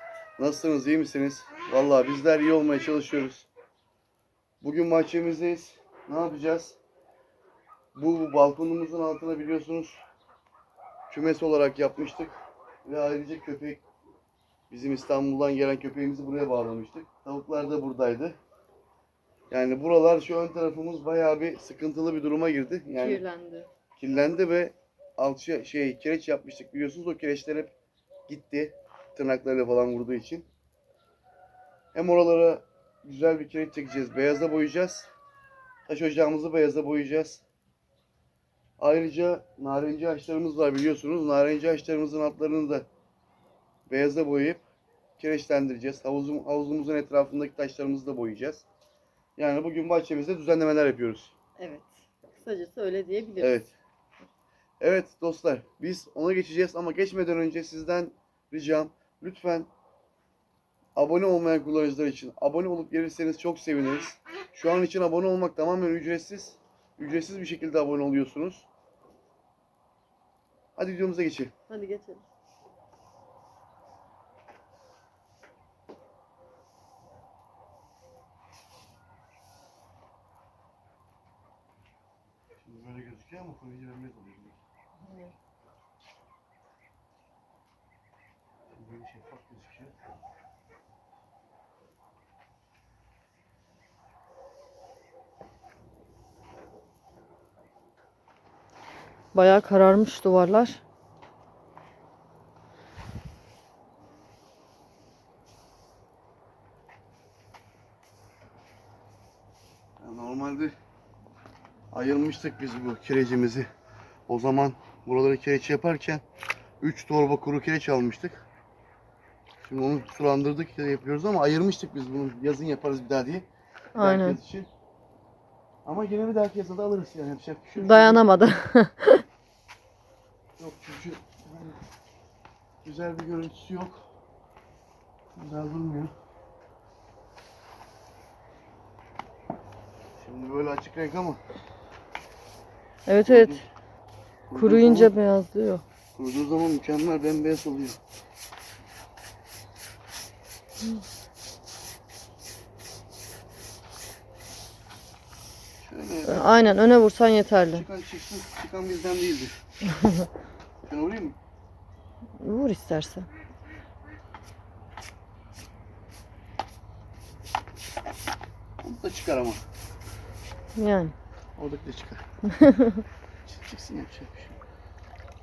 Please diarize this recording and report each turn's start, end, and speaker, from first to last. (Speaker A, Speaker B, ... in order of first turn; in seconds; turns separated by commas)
Speaker A: 0.4-3.5, Speaker A: 4.6-6.8, Speaker A: 8.0-10.0, Speaker A: 11.1-13.8, Speaker A: 14.7-18.4, Speaker A: 19.5-23.2, Speaker B: 23.0-23.7, Speaker A: 24.0-27.8, Speaker A: 28.3-30.5, Speaker A: 31.9-35.1, Speaker A: 35.9-37.4, Speaker A: 38.8-42.9, Speaker A: 43.9-44.6, Speaker A: 45.2-48.7, Speaker A: 49.4-51.3, Speaker B: 51.6-53.6, Speaker A: 53.4-53.8, Speaker A: 54.8-59.7, Speaker A: 61.0-68.7, Speaker A: 70.8-71.5, Speaker B: 71.7-72.2, Speaker A: 82.6-84.6, Speaker B: 85.0-85.3, Speaker A: 88.7-90.0, Speaker B: 99.3-100.8, Speaker A: 110.0-110.8, Speaker A: 111.9-113.7, Speaker A: 114.3-116.2, Speaker A: 116.8-118.5, Speaker A: 119.6-124.7, Speaker B: 124.0-124.4, Speaker A: 125.8-128.2, Speaker B: 127.8-129.2, Speaker A: 130.6-131.8, Speaker A: 132.8-134.1, Speaker A: 135.3-136.1, Speaker A: 140.2-141.4, Speaker B: 143.1-143.6, Speaker A: 143.3-143.7, Speaker A: 144.5-145.1, Speaker B: 144.6-145.8, Speaker A: 146.2-148.0, Speaker A: 155.8-156.8, Speaker B: 156.3-157.9, Speaker A: 157.7-159.6, Speaker B: 159.9-160.3, Speaker A: 160.8-161.4, Speaker B: 162.4-163.3, Speaker A: 168.8-169.6, Speaker B: 170.8-171.1, Speaker A: 171.6-172.2, Speaker B: 172.5-173.0, Speaker A: 173.5-174.6